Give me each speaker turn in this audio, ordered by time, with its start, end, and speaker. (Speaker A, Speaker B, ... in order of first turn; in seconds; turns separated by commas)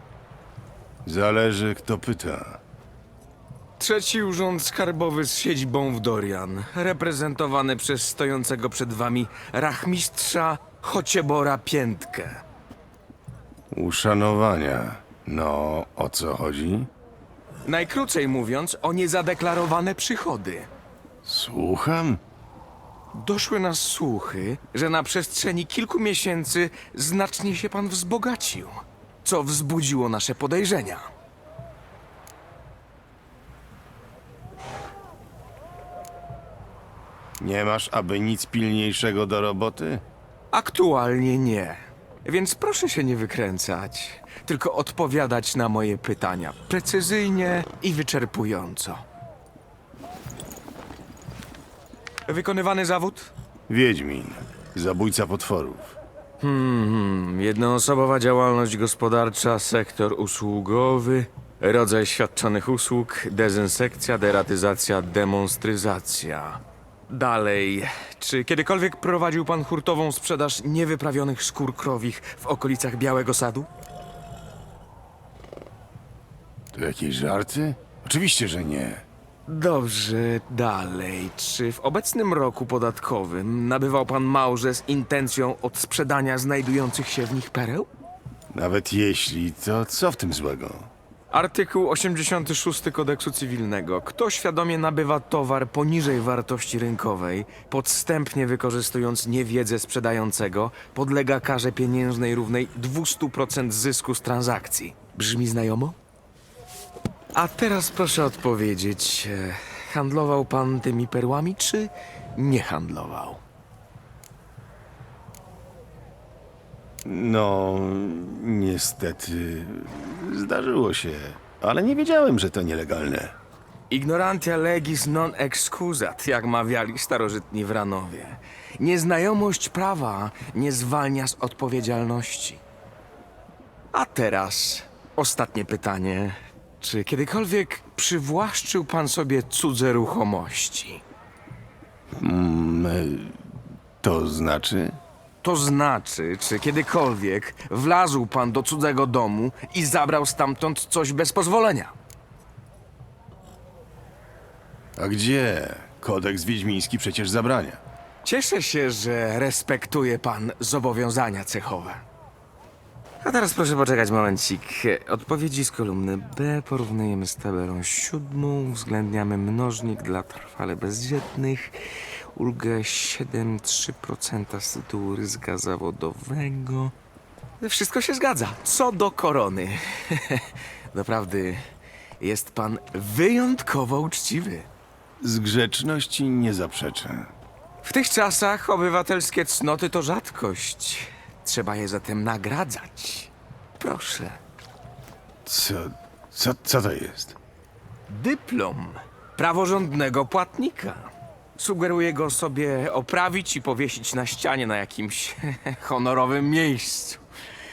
Speaker A: 1.1-2.6, Speaker B: 3.8-12.4, Speaker A: 13.7-16.9, Speaker B: 17.6-20.7, Speaker A: 21.2-22.2, Speaker B: 23.1-31.1, Speaker A: 37.4-40.0, Speaker B: 40.5-49.0, Speaker B: 52.3-53.3, Speaker A: 53.7-56.0, Speaker B: 56.4-73.7, Speaker A: 76.7-79.0, Speaker B: 79.5-87.9, Speaker A: 88.5-90.9, Speaker B: 91.3-106.0, Speaker B: 107.3-113.4, Speaker A: 117.0-123.3, Speaker B: 123.9-132.6, Speaker B: 133.9-141.0, Speaker A: 142.2-143.4, Speaker A: 144.0-145.0, Speaker B: 145.4-151.9, Speaker A: 155.0-157.8, Speaker B: 158.2-162.1, Speaker B: 163.2-176.9, Speaker B: 177.6-181.6, Speaker B: 182.2-184.7, Speaker A: 185.2-187.3, Speaker B: 187.8-194.4, Speaker A: 195.4-197.4, Speaker B: 198.1-207.2